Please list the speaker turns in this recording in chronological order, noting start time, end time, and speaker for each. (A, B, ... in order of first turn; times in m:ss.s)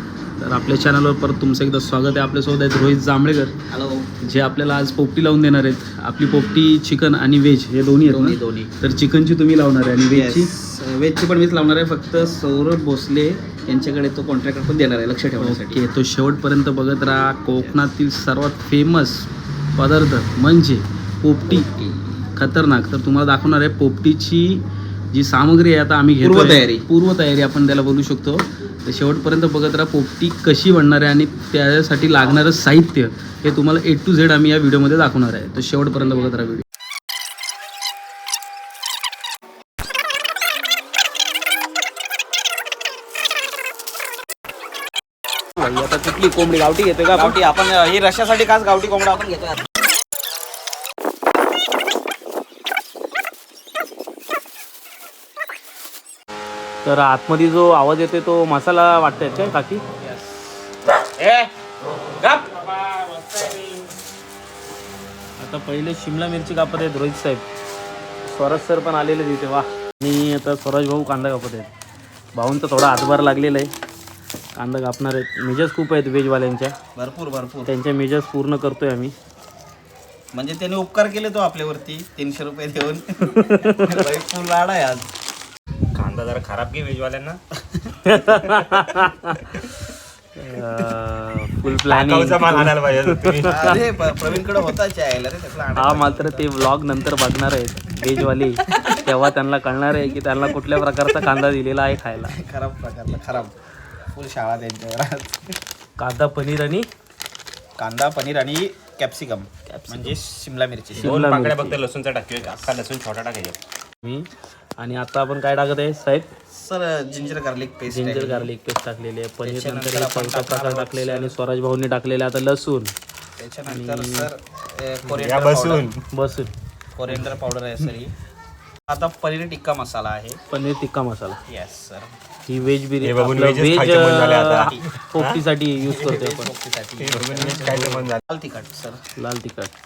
0:00.4-0:03.5 A
0:03.7-0:04.1 B
0:04.2-0:10.5 A
0:08.1-0:08.7 B
0:10.1-0:15.8 B
0:15.4-0:21.7 A
0:17.5-0:17.9 B
0:21.6-0:22.0 B
0:22.3-0:36.6 A
0:26.2-0:26.9 B
0:45.6-0:47.4 A
0:47.1-0:49.6 B
0:56.8-0:59.8 A
1:01.2-1:01.5 C
1:02.2-1:03.8 C
1:05.4-1:07.4 A
1:08.2-1:11.7 A
1:12.3-1:13.7 A
1:14.6-1:16.7 A
1:16.9-1:17.7 B
1:17.6-1:19.1 A
1:20.3-1:25.1 B
1:23.3-1:23.8 A
1:25.9-1:27.4 C
1:28.0-1:29.4 A
1:30.4-1:33.8 A
1:31.9-1:33.8 C
1:33.4-1:36.5 B
1:35.8-1:42.3 A
1:38.7-1:39.0 B
1:42.2-1:43.5 B
1:44.1-1:45.5 B
1:46.0-1:46.9 A
1:47.8-1:51.1 B
1:49.7-1:50.1 A
1:50.9-1:51.8 A
1:51.0-1:53.6 C
1:52.4-1:52.7 B
1:54.0-1:54.3 A
1:54.8-1:56.3 A
1:56.5-1:58.5 B
1:57.9-2:02.9 A
1:59.4-2:01.4 B
2:03.4-2:05.9 B
2:03.6-2:04.3 A
2:05.2-2:06.0 C
2:06.1-2:06.5 A
2:07.0-2:08.1 B
2:07.1-2:07.3 A
2:08.9-2:10.4 B
2:10.5-2:11.4 A
2:11.5-2:12.1 B
2:12.4-2:16.5 A
2:13.0-2:16.1 C
2:14.6-2:14.9 B
2:15.9-2:19.0 B
2:17.0-2:18.2 C
2:19.2-2:19.7 A